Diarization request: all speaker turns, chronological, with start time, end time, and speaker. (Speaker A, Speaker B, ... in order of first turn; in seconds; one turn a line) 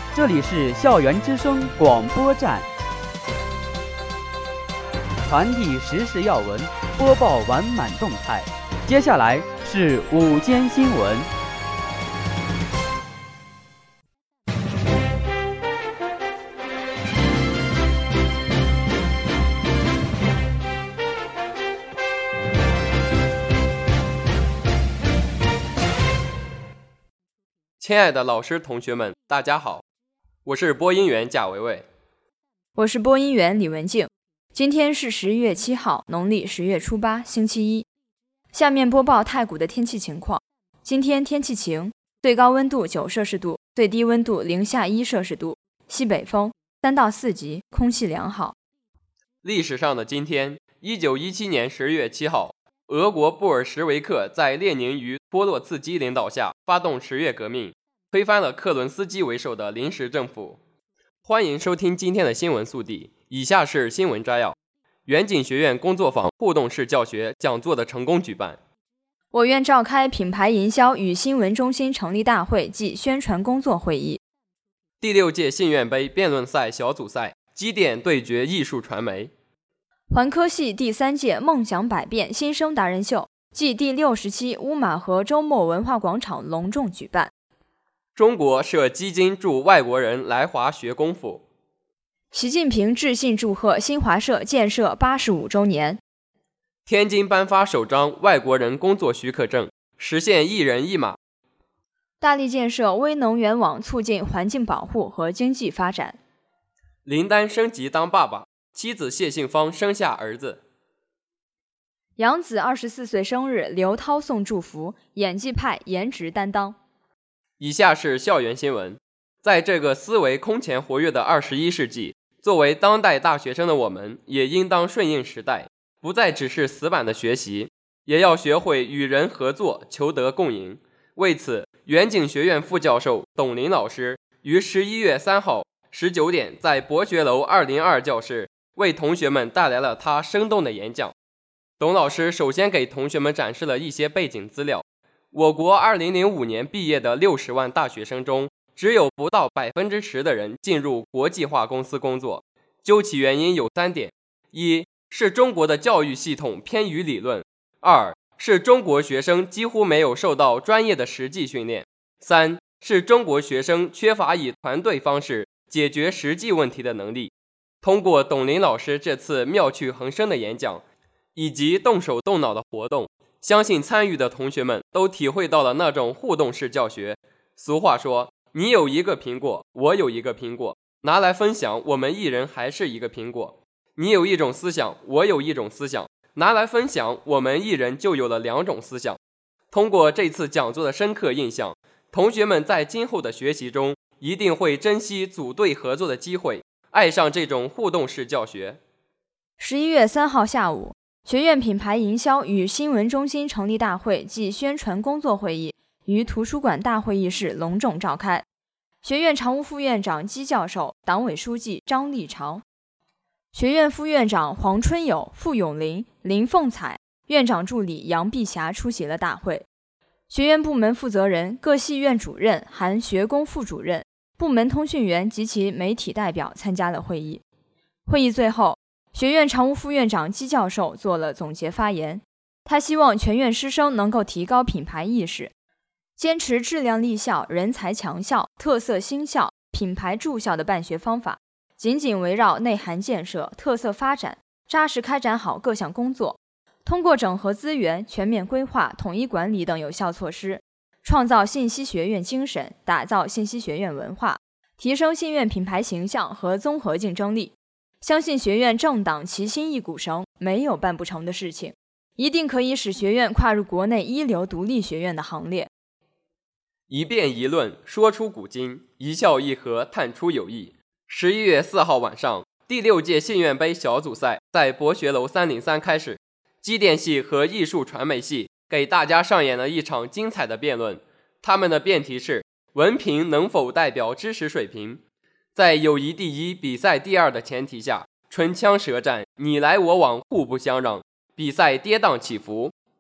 Speaker A: 0.1-2.7
Speaker A: 5.2-11.3
Speaker B: 27.8-29.8
Speaker B: 30.4-31.9
Speaker C: 32.8-37.9
Speaker C: 38.5-48.6
Speaker B: 49.4-60.6
Speaker B: 61.3-64.6
Speaker B: 65.1-68.6
Speaker C: 69.3-74.2
Speaker B: 75.0-79.3
Speaker C: 80.1-87.3
Speaker B: 88.2-91.5
Speaker C: 92.3-96.0
Speaker B: 96.9-101.2
Speaker C: 102.2-106.2
Speaker B: 107.1-110.6
Speaker C: 112.2-116.8
Speaker B: 117.6-141.2
Speaker B: 141.8-170.8
Speaker B: 171.3-189.2
Speaker B: 189.7-198.8
Speaker C: 199.6-208.5
Speaker C: 209.0-212.6
Speaker C: 213.5-219.7
Speaker C: 220.3-227.4
Speaker C: 228.1-235.5
Speaker C: 236.2-265.7
Speaker B: 266.9-285.0
Speaker B: 285.6-292.7